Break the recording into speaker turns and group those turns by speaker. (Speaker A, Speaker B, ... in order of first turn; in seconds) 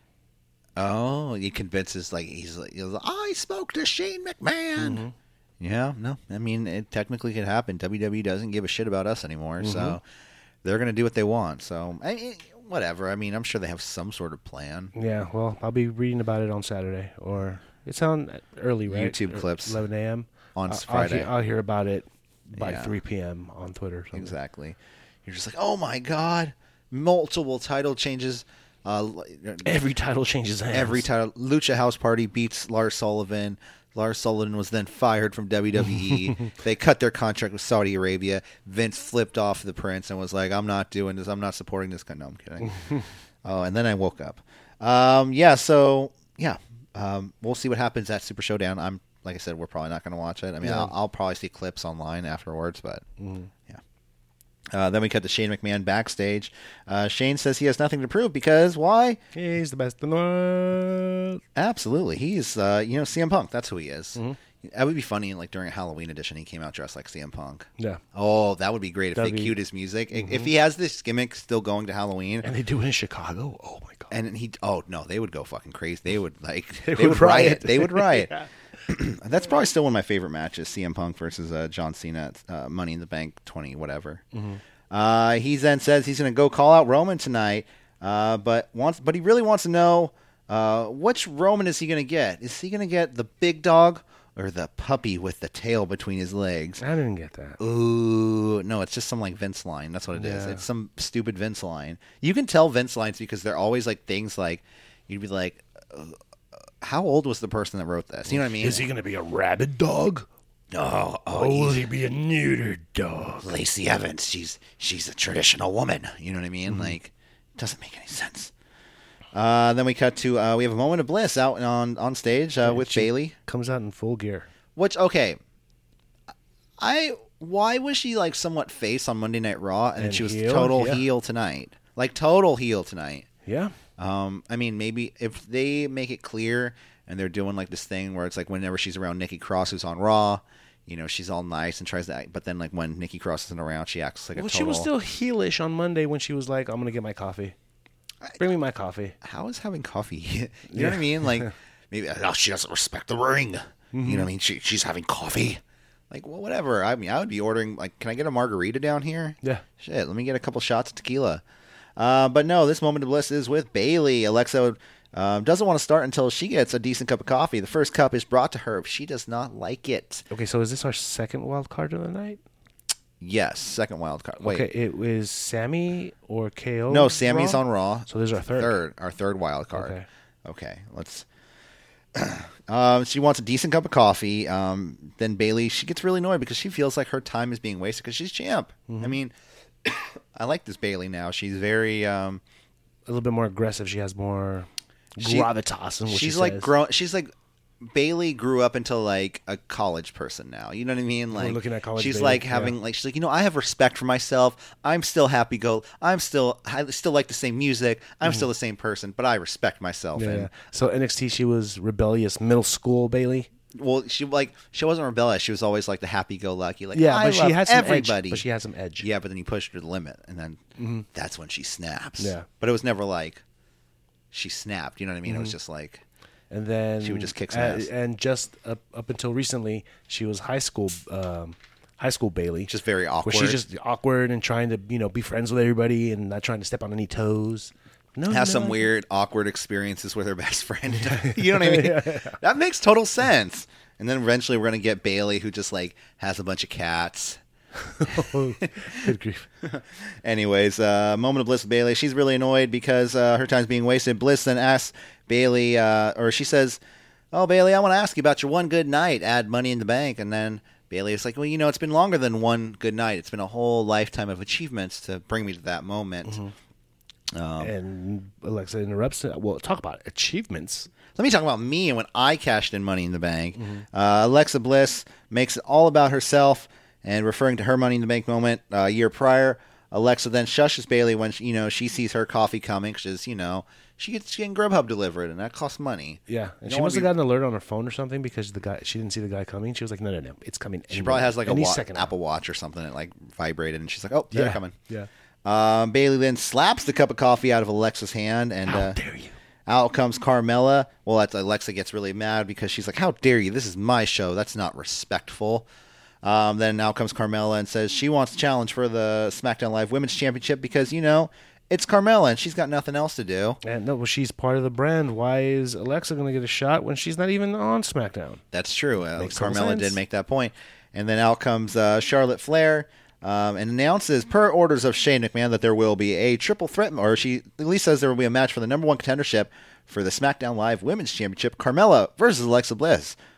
Speaker A: 0.8-5.0, 5.6-10.0, 10.6-14.9, 18.9-19.8, 20.6-21.3, 22.6-23.0, 24.1-29.8, 30.7-42.8, 43.4-53.0, 54.7-59.2, 61.5-72.5, 74.1-78.3, 78.9-84.2, 84.9-96.8, 97.6-106.2, 106.8-108.9, 110.7-111.9, 113.4-118.5, 119.3-123.3, 124.8-125.4, 126.8-133.3, 134.0-144.9, 149.2-161.4, 162.0-170.3, 173.2-174.7, 176.9-181.3, 182.1-192.4, 195.2-195.5, 196.1-210.5, 213.7-218.4, 219.0-220.6, 221.1-223.4, 224.3-226.0, 227.0-227.9, 232.7-233.6, 238.3-247.4, 248.1-249.1, 249.6-256.8, 257.3-266.4, 267.3-267.7, 271.1-287.1, 290.9-294.8, 295.4-299.0, 299.7-305.7, 306.2-313.6, 318.5-333.2
Speaker B: 4.8-5.1, 9.6-10.0, 14.9-24.4, 29.6-31.1, 35.9-36.5, 42.7-43.0, 50.6-50.9, 53.2-53.5, 59.3-61.4, 69.2-69.5, 70.1-70.5, 72.4-74.1, 76.8-78.5, 84.3-84.6, 96.8-97.6, 100.2-100.6, 108.3-110.3, 111.3-113.5, 116.7-117.0, 122.6-124.5, 130.0-131.0, 133.4-133.7, 144.3-147.6, 148.4-149.2, 150.7-151.5, 153.9-154.3, 170.3-172.4, 174.4-178.8, 179.7-180.1, 188.9-189.2, 193.1-196.7, 201.3-202.8, 210.2-213.5, 216.9-219.1, 220.8-221.1, 222.2-222.5, 225.3-225.6, 226.5-232.7, 233.2-238.9, 240.9-242.4, 247.9-249.5, 266.3-266.5, 267.6-270.9, 273.6-273.9, 286.3-292.1, 294.3-295.1, 298.6-299.4, 313.6-318.4, 319.2-320.0